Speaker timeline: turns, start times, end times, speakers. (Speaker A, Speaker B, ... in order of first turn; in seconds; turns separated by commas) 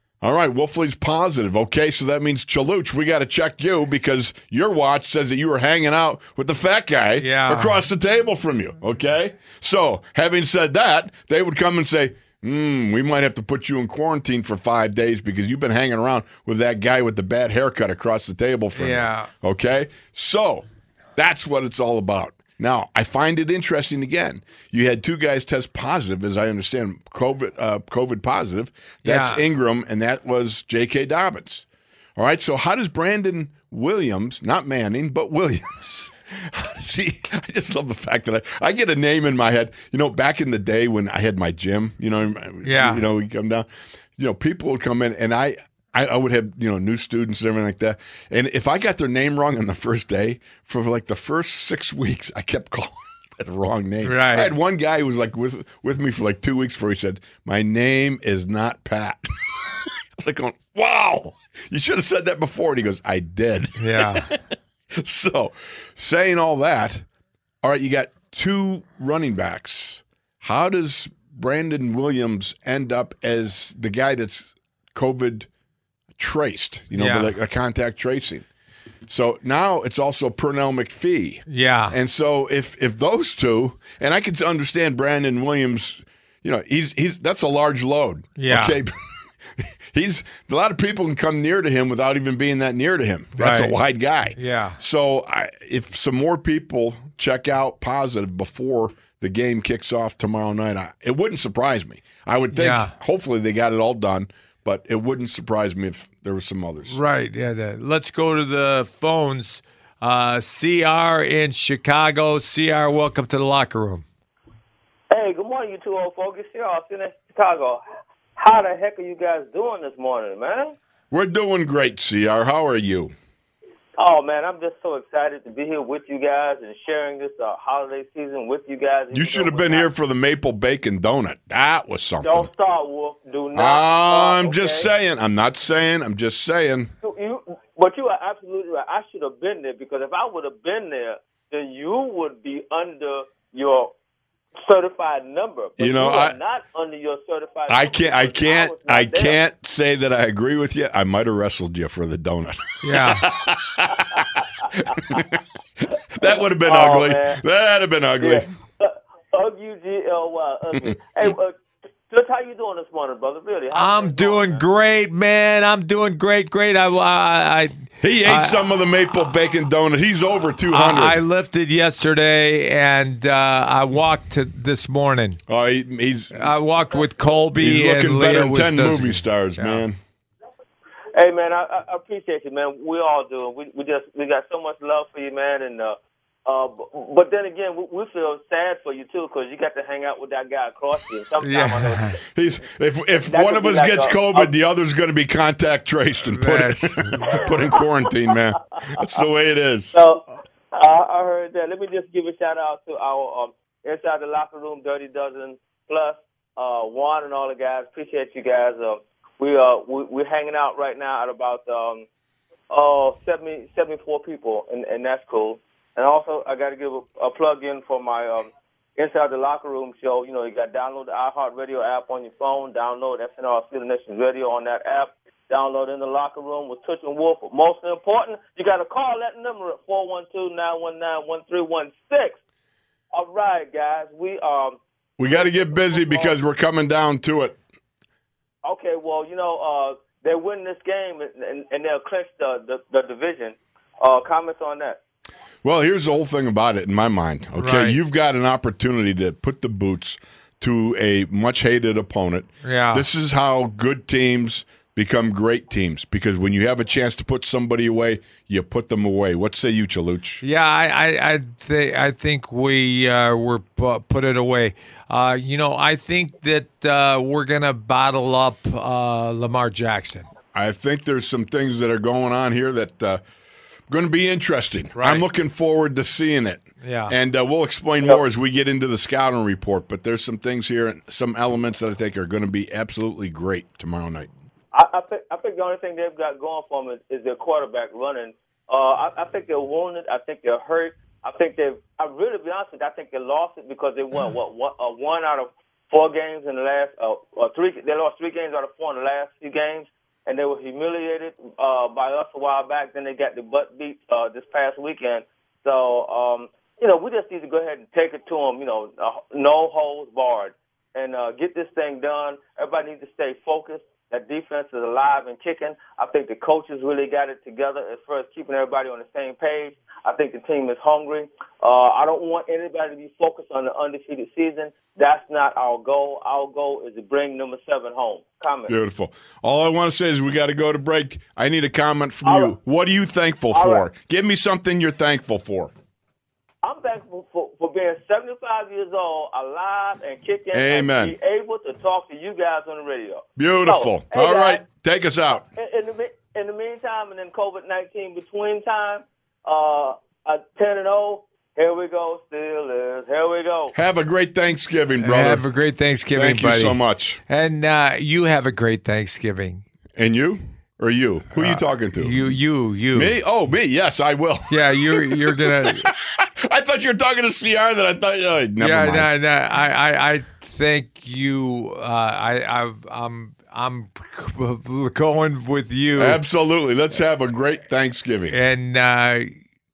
Speaker A: 0.2-31.6, Speaker B: 7.2-7.8, Speaker B: 18.8-19.3, Speaker B: 29.1-29.4, Speaker A: 32.2-64.4, Speaker B: 42.6-43.0, Speaker B: 54.0-54.5, Speaker B: 63.8-64.3, Speaker A: 64.9-67.1, Speaker A: 67.6-75.5, Speaker A: 76.2-78.5, Speaker B: 76.9-77.3, Speaker A: 79.1-88.9, Speaker B: 81.5-82.0, Speaker B: 88.4-88.8, Speaker A: 89.6-107.0, Speaker B: 93.4-93.8, Speaker B: 94.4-94.8, Speaker B: 102.5-102.9, Speaker B: 106.9-114.0, Speaker C: 115.1-117.8, Speaker C: 118.4-120.8, Speaker A: 121.1-123.1, Speaker C: 124.0-129.9, Speaker A: 129.1-132.5, Speaker C: 132.2-134.9, Speaker A: 133.5-136.9, Speaker C: 137.0-143.9, Speaker C: 144.6-149.4, Speaker A: 145.8-146.4, Speaker A: 147.7-155.4, Speaker B: 152.8-153.3, Speaker A: 156.1-158.5, Speaker C: 156.3-157.4, Speaker C: 158.2-161.6, Speaker C: 162.1-164.7, Speaker B: 163.7-168.6, Speaker A: 168.0-171.2, Speaker B: 170.7-175.4, Speaker A: 175.5-176.5, Speaker B: 176.3-179.8, Speaker A: 177.6-180.0, Speaker C: 181.2-192.2, Speaker B: 191.4-192.2, Speaker A: 192.3-200.0, Speaker C: 193.2-194.5, Speaker B: 196.3-197.3, Speaker C: 197.4-197.8, Speaker C: 199.9-212.1, Speaker C: 212.7-232.4, Speaker C: 233.1-236.3, Speaker A: 235.2-237.6, Speaker C: 238.6-245.0, Speaker A: 245.6-260.4, Speaker B: 247.6-248.0, Speaker B: 252.6-253.1, Speaker B: 260.4-270.3, Speaker A: 270.5-273.2, Speaker A: 273.9-284.3, Speaker B: 275.0-275.3, Speaker B: 276.8-277.1, Speaker C: 284.7-328.7, Speaker A: 328.7-335.7, Speaker C: 332.2-332.5, Speaker C: 333.5-333.9, Speaker C: 336.6-344.7, Speaker A: 340.5-341.2, Speaker A: 343.4-345.4, Speaker C: 345.4-353.7, Speaker A: 353.7-355.5, Speaker B: 355.0-359.6, Speaker A: 356.1-357.2, Speaker A: 360.0-362.3, Speaker B: 361.3-363.2, Speaker A: 362.9-369.1, Speaker B: 364.5-365.9, Speaker B: 368.6-376.2, Speaker A: 376.0-378.4, Speaker B: 378.3-379.4